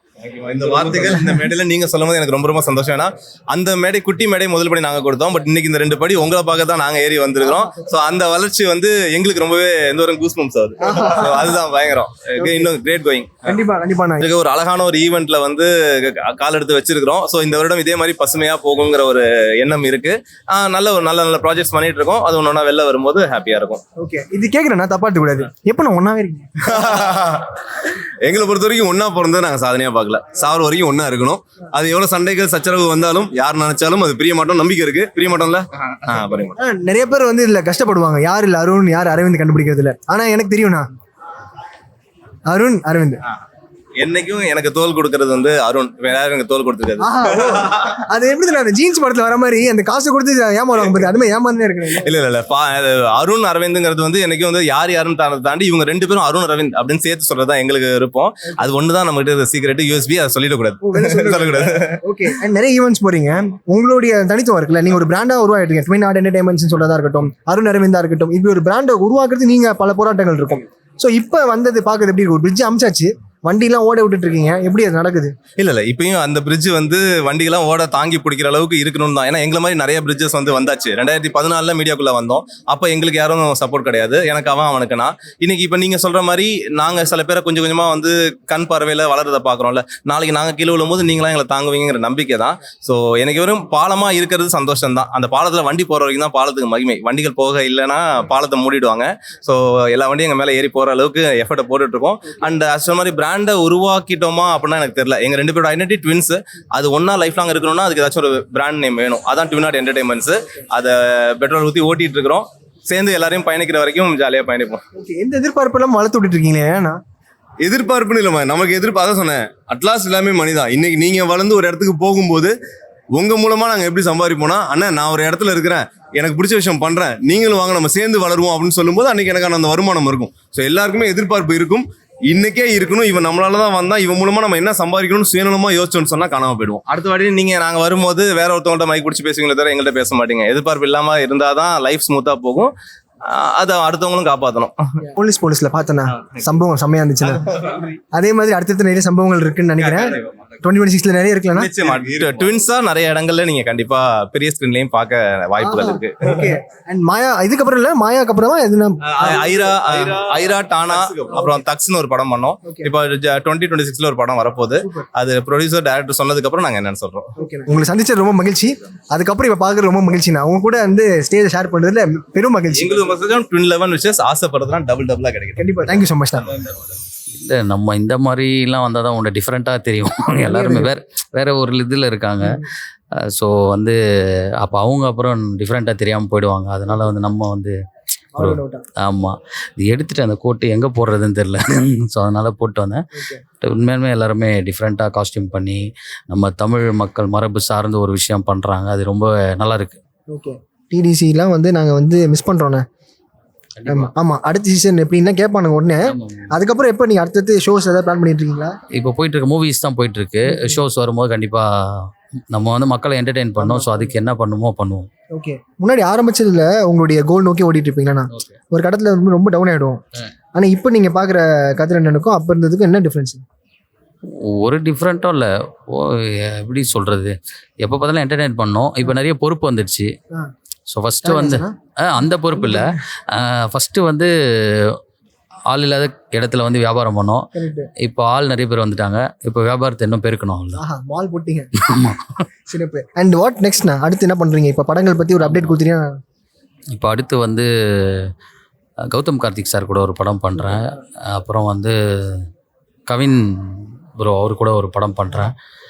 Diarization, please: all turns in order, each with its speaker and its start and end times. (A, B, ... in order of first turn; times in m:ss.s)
0:00.2-0:13.5 A
0:07.4-0:07.9 B
0:10.8-0:11.5 B
0:12.4-0:12.7 B
0:13.4-0:14.3 B
0:14.2-0:23.8 A
0:24.0-0:26.9 B
0:26.7-0:27.6 A
0:28.2-0:36.6 A
0:36.6-0:40.9 B
0:42.5-0:43.2 B
0:44.0-0:47.8 A
0:47.0-0:52.1 B
0:52.0-1:02.0 A
1:00.8-1:15.3 B
1:15.6-1:54.8 A
1:54.9-1:57.0 B
1:57.6-2:02.5 A
2:03.1-2:22.7 A
2:23.2-2:24.9 A
2:25.0-2:31.7 B
2:31.6-2:36.5 A
2:35.6-2:39.6 B
2:39.1-2:47.3 A
2:42.6-2:42.9 B
2:44.8-2:45.1 B
2:47.4-2:53.0 B
2:52.7-2:55.7 A
2:55.6-2:56.5 B
2:57.3-3:02.6 C
3:00.3-3:00.9 B
3:02.4-3:02.7 B
3:03.2-3:04.0 C
3:04.6-3:07.8 C
3:08.4-3:08.8 B
3:08.4-3:13.0 C
3:13.1-3:13.4 B
3:13.6-3:20.0 C
3:20.3-3:22.9 B
3:23.8-3:24.1 C
3:23.9-3:28.8 B
3:26.1-3:26.5 C
3:29.0-3:35.1 C
3:30.5-3:30.8 B
3:33.6-3:34.2 B
3:35.3-3:40.0 B
3:40.6-3:43.4 B
3:44.3-3:50.1 C
3:50.9-3:54.3 C
3:51.2-3:53.0 B
3:55.7-3:57.5 C
3:57.5-3:57.9 B
3:58.0-4:00.8 C
4:00.7-4:01.7 B
4:01.8-4:02.2 C
4:02.7-4:06.2 B
4:05.4-4:05.8 C
4:06.9-4:08.3 C
4:09.0-4:12.5 C
4:10.5-4:11.0 B
4:13.1-4:15.5 C